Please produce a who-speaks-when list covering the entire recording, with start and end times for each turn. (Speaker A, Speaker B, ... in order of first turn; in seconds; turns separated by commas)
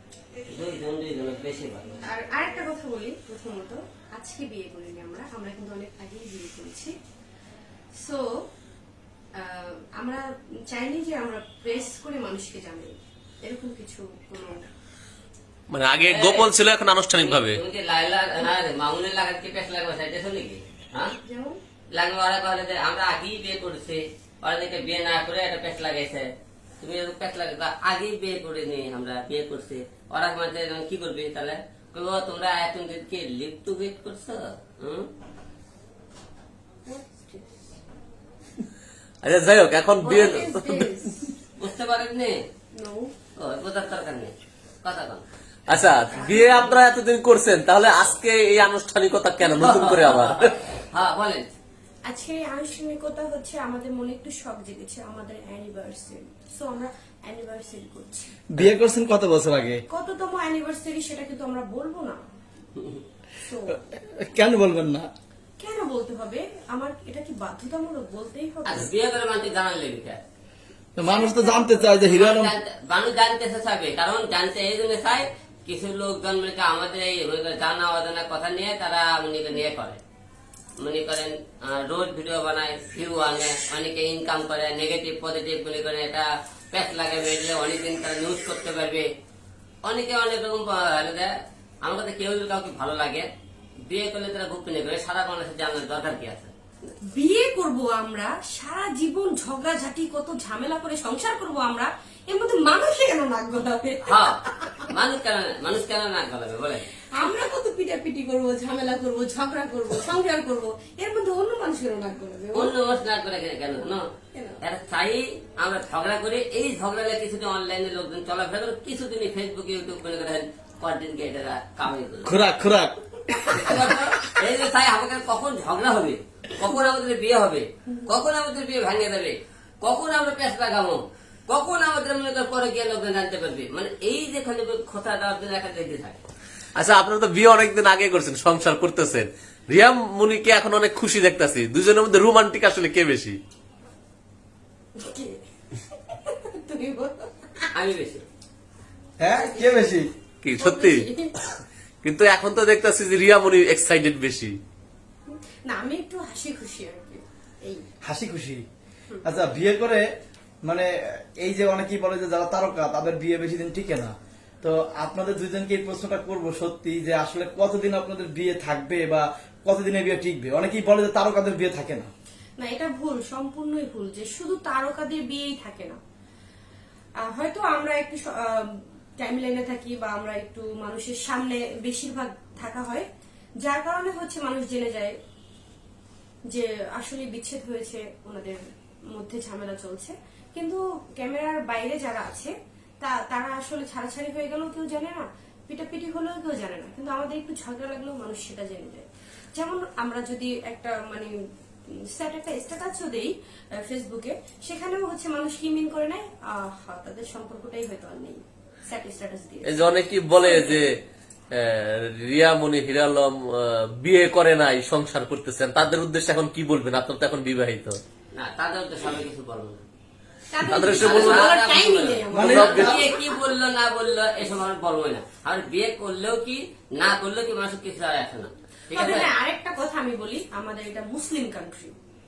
Speaker A: 0.5-2.0, Speaker B: 2.1-6.9, Speaker B: 8.0-8.2, Speaker B: 9.4-14.7, Speaker C: 15.7-17.6, Speaker A: 16.1-16.5, Speaker A: 17.1-21.1, Speaker B: 21.2-21.6, Speaker A: 21.9-35.1, Speaker B: 36.9-37.7, Speaker C: 39.2-41.0, Speaker B: 40.0-41.3, Speaker A: 41.6-42.4, Speaker B: 42.8-43.1, Speaker A: 43.4-45.2, Speaker C: 45.7-50.5, Speaker B: 46.1-46.8, Speaker A: 49.6-51.5, Speaker B: 52.1-58.3, Speaker D: 58.5-59.8, Speaker B: 59.9-62.2, Speaker B: 63.4-63.8, Speaker D: 63.9-65.1, Speaker B: 65.6-68.9, Speaker A: 68.7-70.2, Speaker D: 71.0-72.5, Speaker B: 71.0-72.1, Speaker A: 72.0-80.0, Speaker A: 80.8-89.1, Speaker A: 89.9-93.3, Speaker A: 93.9-96.5, Speaker B: 97.0-104.9, Speaker A: 104.1-104.4, Speaker A: 104.9-106.9, Speaker B: 107.1-112.7, Speaker A: 112.5-114.1, Speaker B: 114.3-114.6, Speaker A: 114.6-122.3, Speaker D: 122.2-124.1, Speaker A: 123.5-136.2, Speaker C: 136.8-143.4, Speaker B: 145.0-145.4, Speaker B: 146.1-147.7, Speaker A: 147.7-148.2, Speaker D: 149.2-150.1, Speaker B: 149.3-150.0, Speaker C: 150.4-151.1, Speaker B: 150.6-151.3, Speaker C: 152.0-154.6, Speaker B: 155.7-157.8, Speaker D: 158.0-158.6, Speaker D: 159.2-160.0, Speaker D: 160.7-172.1, Speaker B: 172.6-176.0, Speaker B: 177.2-183.1, Speaker B: 183.6-185.2, Speaker B: 186.5-188.6, Speaker B: 189.1-201.3, Speaker B: 202.1-209.8, Speaker C: 209.7-210.9, Speaker B: 210.4-210.8, Speaker C: 211.5-218.0, Speaker A: 218.3-219.8, Speaker B: 220.5-223.3, Speaker C: 220.7-221.5, Speaker A: 220.8-229.3, Speaker D: 222.3-223.0, Speaker C: 222.4-223.0, Speaker B: 228.9-231.9